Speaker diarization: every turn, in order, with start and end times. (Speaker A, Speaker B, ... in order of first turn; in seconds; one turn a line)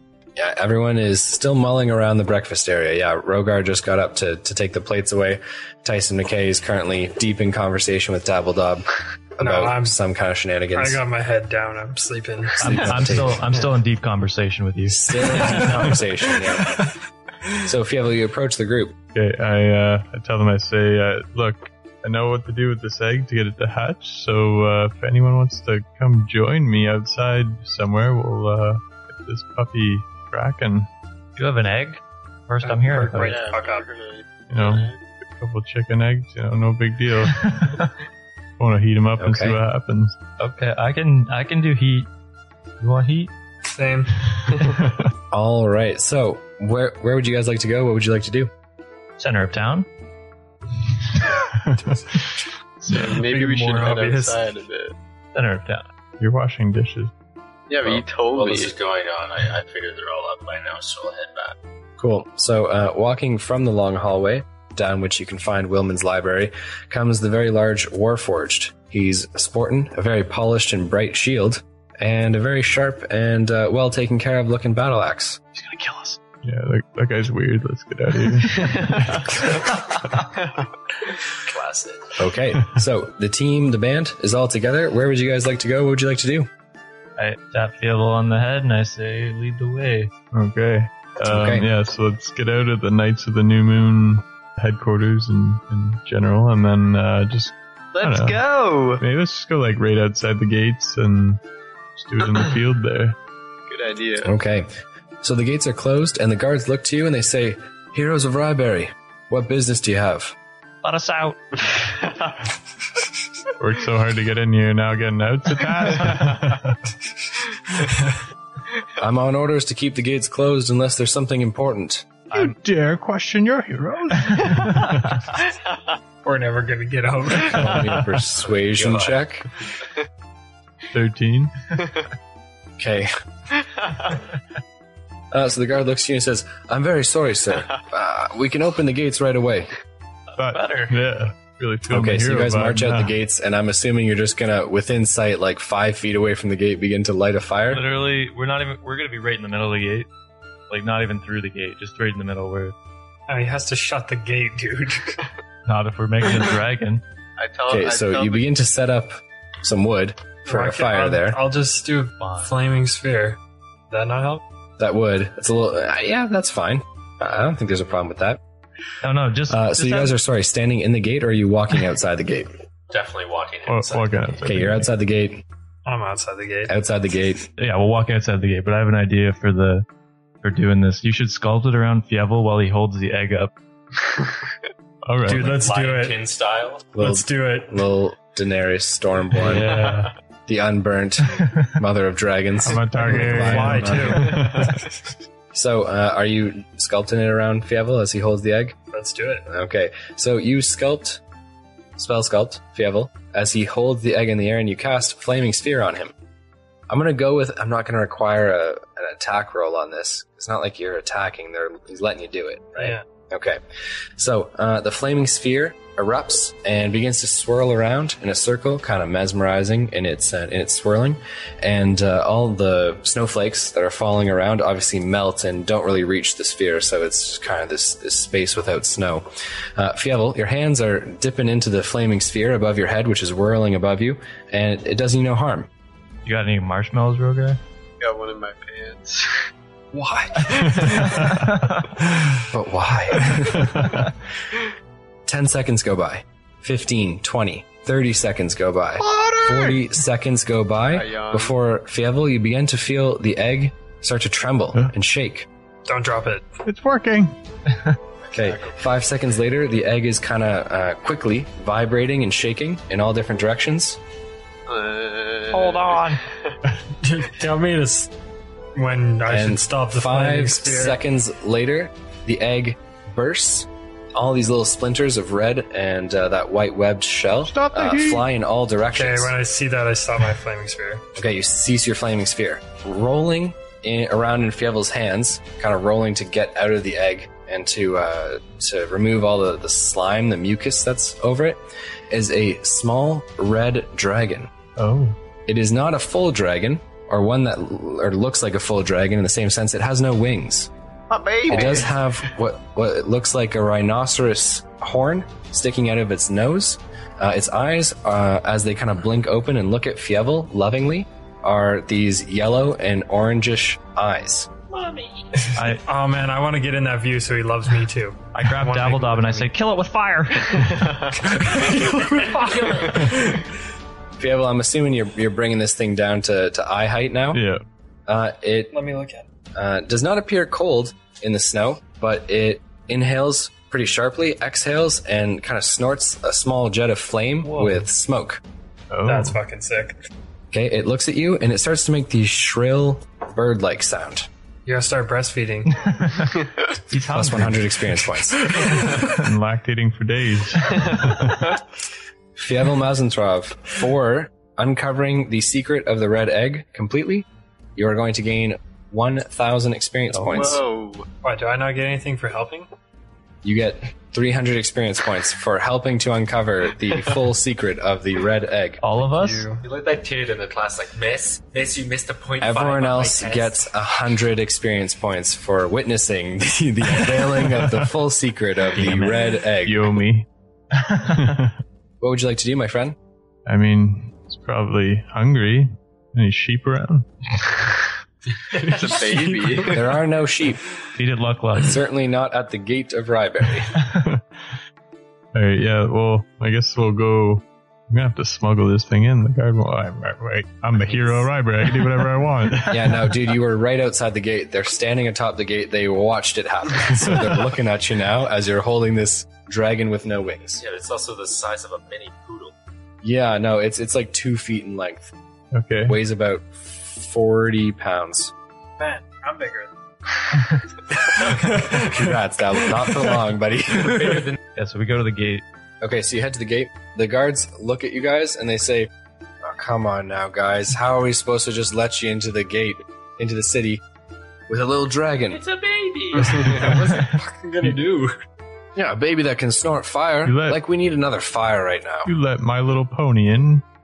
Speaker A: 0.4-11.0
Speaker B: 9.4-10.0
Speaker B: 10.7-13.7
Speaker A: 12.6-13.4
Speaker C: 12.6-15.6
Speaker A: 14.9-16.8
Speaker A: 17.6-18.9
Speaker D: 19.1-30.9
Speaker C: 31.4-33.4
Speaker B: 32.6-33.9
Speaker E: 33.2-35.0
Speaker D: 34.5-37.8
Speaker C: 37.4-37.8
Speaker D: 38.6-40.2
Speaker A: 39.2-39.6
Speaker C: 40.4-42.1
Speaker C: 42.8-43.3
Speaker B: 43.7-44.2
Speaker D: 44.5-45.1
Speaker A: 45.3-48.5
Speaker C: 49.2-49.9
Speaker D: 51.4-52.4
Speaker B: 51.8-52.2
Speaker E: 52.8-55.0
Speaker D: 52.9-53.2
Speaker B: 53.2-54.4
Speaker C: 55.3-55.9
Speaker D: 56.2-57.1
Speaker E: 57.7-58.7
Speaker F: 57.8-61.6
Speaker A: 62.0-75.4
Speaker C: 75.5-76.2
Speaker D: 76.4-79.3
Speaker F: 81.3-82.2
Speaker A: 82.2-86.5
Speaker C: 87.2-90.1
Speaker D: 90.3-98.4
Speaker A: 91.2-91.7
Speaker E: 97.9-99.0
Speaker D: 99.0-101.4
Speaker D: 102.0-103.2
Speaker E: 103.7-104.3
Speaker A: 104.2-104.7
Speaker A: 105.2-110.3
Speaker C: 110.8-111.8
Speaker D: 113.6-116.8
Speaker A: 119.0-122.1
Speaker D: 122.3-125.3
Speaker C: 124.6-125.2
Speaker B: 126.2-127.8
Speaker A: 127.5-129.5
Speaker D: 127.6-128.0
Speaker F: 128.7-129.2
Speaker D: 130.9-131.5
Speaker A: 132.8-133.1
Speaker A: 135.3-139.7
Speaker C: 140.4-141.0
Speaker D: 140.4-143.1
Speaker A: 141.9-147.8
Speaker C: 147.7-150.1
Speaker C: 150.7-152.8
Speaker B: 153.3-155.2
Speaker C: 155.7-157.0
Speaker E: 157.4-158.5
Speaker A: 157.7-161.4
Speaker B: 160.5-163.4
Speaker C: 162.2-162.5
Speaker B: 163.9-164.4
Speaker A: 164.8-168.4
Speaker C: 169.0-170.2
Speaker A: 169.5-172.6
Speaker F: 172.9-174.4
Speaker D: 173.7-174.9
Speaker A: 174.4-175.4
Speaker B: 175.9-176.8
Speaker A: 176.7-177.5
Speaker C: 177.6-179.9
Speaker C: 180.4-183.5
Speaker D: 185.1-185.6
Speaker B: 185.2-186.2
Speaker F: 185.3-186.9
Speaker A: 186.9-189.9
Speaker B: 187.0-187.8
Speaker C: 189.4-190.1
Speaker A: 190.5-194.6
Speaker D: 192.6-194.9
Speaker B: 192.9-194.6
Speaker A: 195.5-198.8
Speaker B: 198.9-199.5
Speaker A: 199.5-201.2
Speaker A: 202.0-206.1
Speaker A: 206.9-213.6
Speaker B: 212.8-213.0
Speaker A: 214.2-235.7
Speaker C: 236.2-237.6
Speaker E: 238.0-239.4
Speaker A: 239.9-240.9
Speaker E: 240.6-241.2
Speaker D: 240.9-241.3
Speaker C: 241.3-241.7
Speaker A: 242.4-244.1
Speaker D: 243.6-244.0
Speaker A: 245.3-255.5
Speaker E: 250.9-251.6
Speaker B: 255.9-256.6
Speaker D: 256.6-257.4
Speaker A: 258.3-264.0
Speaker E: 264.7-266.2
Speaker C: 265.5-266.2
Speaker B: 267.0-268.1
Speaker B: 268.8-271.0
Speaker A: 269.3-279.4
Speaker D: 277.5-278.3
Speaker B: 278.9-281.0
Speaker A: 281.1-294.5
Speaker D: 294.8-295.2
Speaker A: 295.5-300.7
Speaker E: 301.1-302.1
Speaker A: 301.5-314.5
Speaker F: 314.7-315.5
Speaker C: 315.6-315.8
Speaker B: 315.8-319.5
Speaker C: 318.3-320.9
Speaker B: 321.3-323.1
Speaker F: 322.2-323.1
Speaker A: 324.2-327.4
Speaker D: 327.3-327.6
Speaker A: 328.1-328.8
Speaker B: 328.7-329.3
Speaker A: 329.6-338.4
Speaker C: 337.4-337.9
Speaker D: 338.9-339.4
Speaker B: 339.1-340.0
Speaker A: 340.5-344.3
Speaker B: 344.7-345.8
Speaker C: 345.8-346.3
Speaker C: 346.9-347.7
Speaker A: 347.1-348.6
Speaker D: 349.0-351.6
Speaker A: 352.4-360.6
Speaker C: 360.1-360.5
Speaker E: 360.3-361.1
Speaker B: 361.2-362.7
Speaker A: 363.4-368.8
Speaker C: 368.8-369.5
Speaker B: 368.9-369.6
Speaker F: 369.6-373.6
Speaker A: 372.4-380.0
Speaker F: 378.8-379.2
Speaker D: 379.6-380.3
Speaker D: 381.0-381.6
Speaker A: 382.0-383.0
Speaker D: 383.5-387.1
Speaker B: 388.5-389.8
Speaker E: 388.6-389.9
Speaker A: 389.7-390.7
Speaker C: 391.0-391.8
Speaker A: 391.6-393.7
Speaker D: 394.0-394.3
Speaker D: 395.3-403.2
Speaker A: 402.7-410.6
Speaker F: 410.6-412.5
Speaker A: 413.0-415.1
Speaker D: 415.5-416.0
Speaker A: 415.9-418.3
Speaker B: 418.8-419.7
Speaker A: 421.4-424.3
Speaker F: 423.8-424.4
Speaker C: 424.6-425.4
Speaker A: 425.8-428.9
Speaker A: 429.4-433.8
Speaker A: 434.5-435.4
Speaker F: 435.3-436.5
Speaker B: 436.2-438.2
Speaker A: 438.8-442.1
Speaker D: 440.2-440.6
Speaker D: 442.1-443.6